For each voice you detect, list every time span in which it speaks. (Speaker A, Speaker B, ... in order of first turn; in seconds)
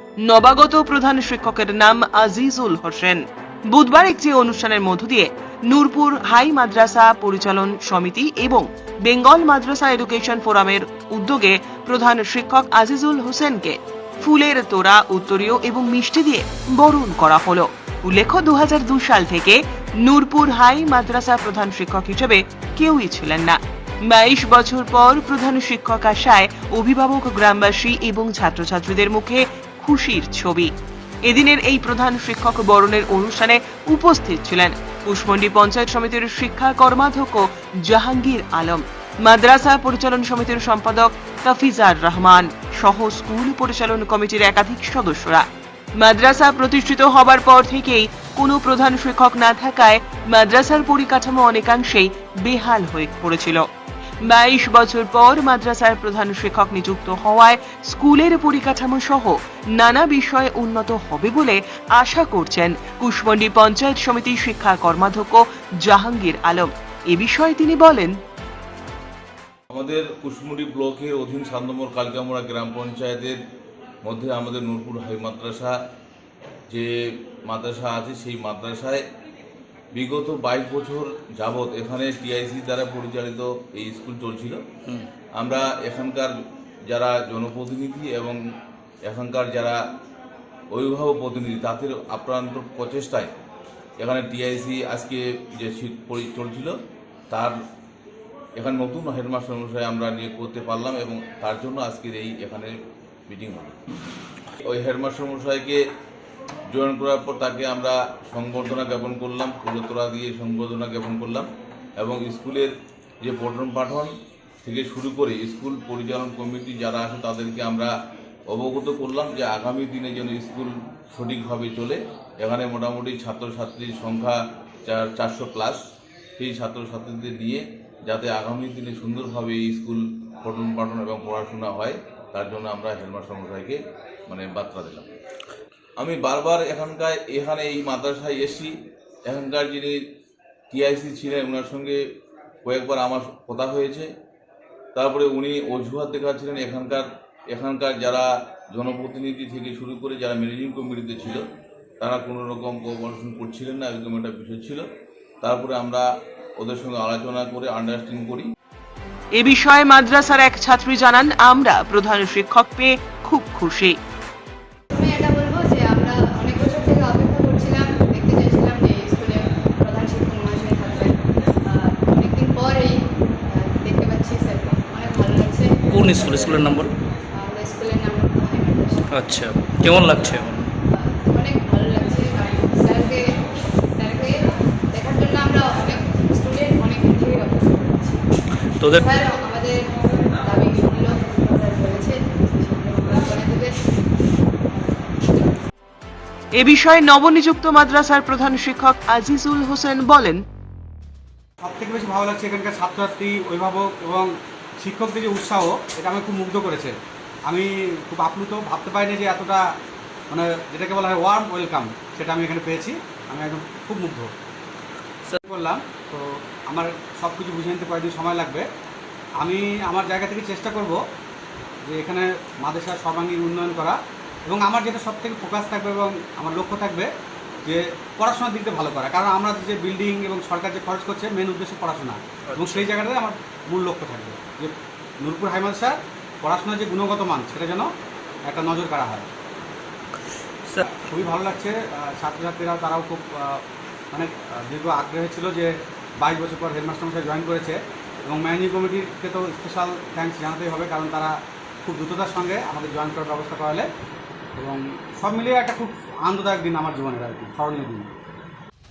Speaker A: 0.2-30.7, 31.2-45.5, 46.0-53.7, 54.2-68.2, 159.3-164.0, 196.6-200.4
Speaker B: 69.7-73.4, 74.0-75.8, 76.7-79.0, 79.9-84.6, 85.4-86.3, 86.9-88.4, 89.0-89.8, 90.7-93.3, 94.0-96.8, 97.3-97.6, 98.6-102.7, 103.3-103.8, 104.6-105.8, 106.7-112.7, 113.2-114.1, 114.6-117.9, 118.5-125.8, 126.4-135.1, 136.0-140.0, 140.7-142.0, 142.7-144.1, 144.9-151.4, 152.0-154.8, 155.4-156.1, 156.6-158.5
Speaker C: 164.9-176.5, 177.3-179.3, 180.9-183.3, 184.0-188.2, 188.9-194.1, 194.7-195.2
Speaker D: 175.9-176.9, 179.1-180.7, 188.8-189.1, 232.5-232.8
Speaker E: 201.6-207.0, 207.5-209.6, 210.3-214.3, 215.4-218.7, 219.4-221.0, 221.8-227.1, 227.7-237.9, 238.4-239.3, 240.8-253.9, 254.6-258.1